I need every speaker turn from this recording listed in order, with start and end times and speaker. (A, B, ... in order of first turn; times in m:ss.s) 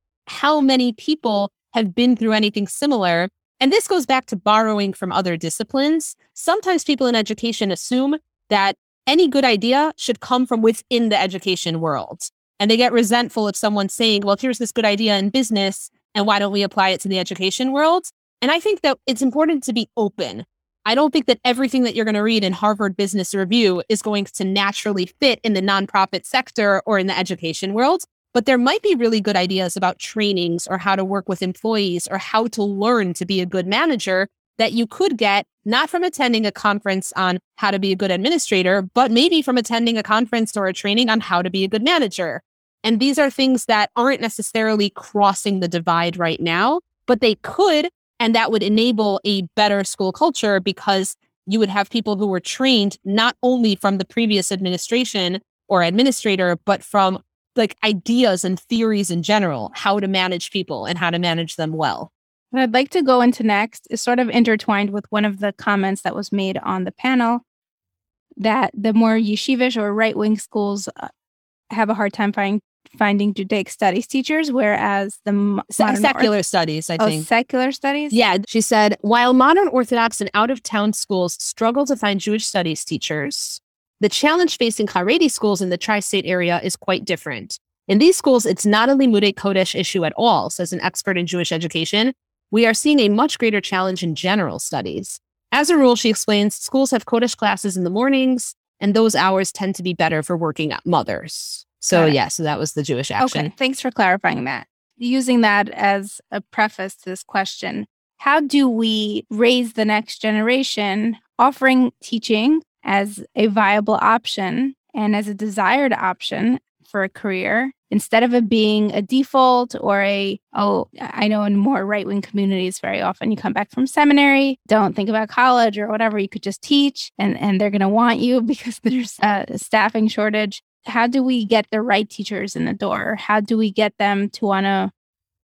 0:00.3-1:02.1 A
1:02.5-1:07.4 B
1:08.4-1:11.1 B
1:11.7-1:16.3 B
1:15.8-1:17.3 A
1:17.0-1:18.2 B
1:18.1-1:43.5 A
1:41.9-1:42.2 B
1:43.2-2:14.9 B